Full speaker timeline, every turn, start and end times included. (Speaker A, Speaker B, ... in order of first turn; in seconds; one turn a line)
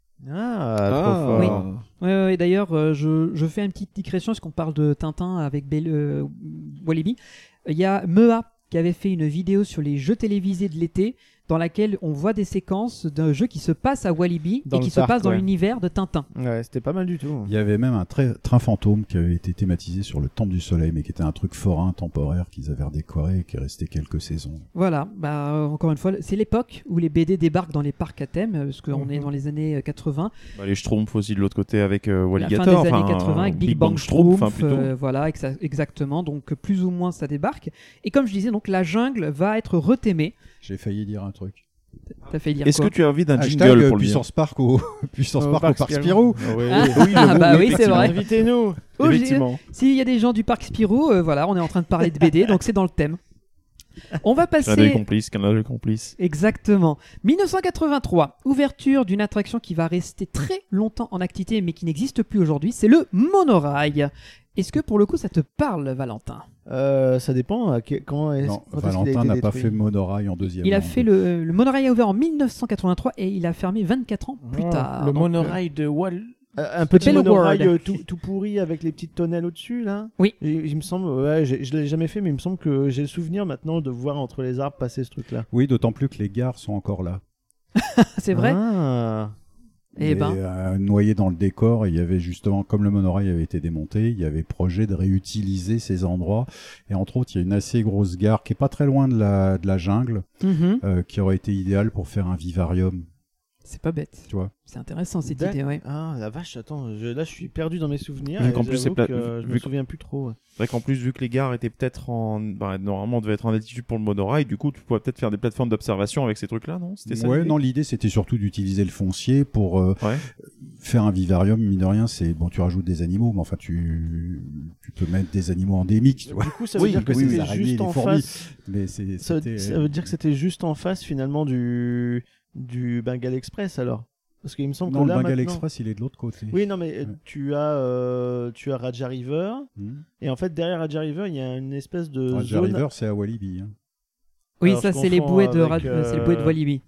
Speaker A: 0.2-1.6
Speaker B: 0.9-1.8
Speaker C: 1.4-16.3
Speaker A: 14.6-15.4
Speaker A: 16.4-17.5
Speaker D: 17.4-24.6
Speaker C: 24.7-30.3
Speaker E: 28.9-29.2
Speaker B: 30.6-34.9
Speaker C: 32.4-40.4
Speaker D: 40.6-41.6
Speaker C: 42.2-42.9
Speaker B: 42.6-44.2
Speaker D: 43.4-46.6
Speaker A: 45.4-48.8
Speaker C: 46.7-48.2
Speaker B: 46.9-48.3
Speaker B: 49.0-49.6
Speaker C: 49.0-53.2
Speaker C: 54.2-55.0
Speaker B: 54.6-56.1
Speaker C: 56.2-66.5
Speaker A: 66.7-69.7
Speaker D: 68.4-71.1
Speaker C: 70.6-75.5
Speaker E: 74.4-77.5
Speaker A: 76.5-85.5
Speaker C: 77.0-77.9
Speaker D: 85.5-87.2
Speaker C: 87.8-88.6
Speaker A: 88.3-89.3
Speaker D: 90.0-100.2
Speaker C: 90.0-90.4
Speaker C: 100.4-100.8
Speaker D: 100.8-103.0
Speaker C: 103.6-105.8
Speaker A: 105.2-110.4
Speaker B: 108.4-109.7
Speaker B: 110.6-117.5
Speaker D: 117.0-130.1
Speaker A: 126.3-128.3
Speaker B: 126.8-127.5
Speaker A: 129.2-135.6
Speaker D: 134.9-137.2
Speaker A: 136.5-139.7
Speaker D: 139.8-140.0
Speaker A: 140.2-142.8
Speaker D: 142.3-143.7
Speaker C: 144.6-146.8
Speaker A: 144.6-146.6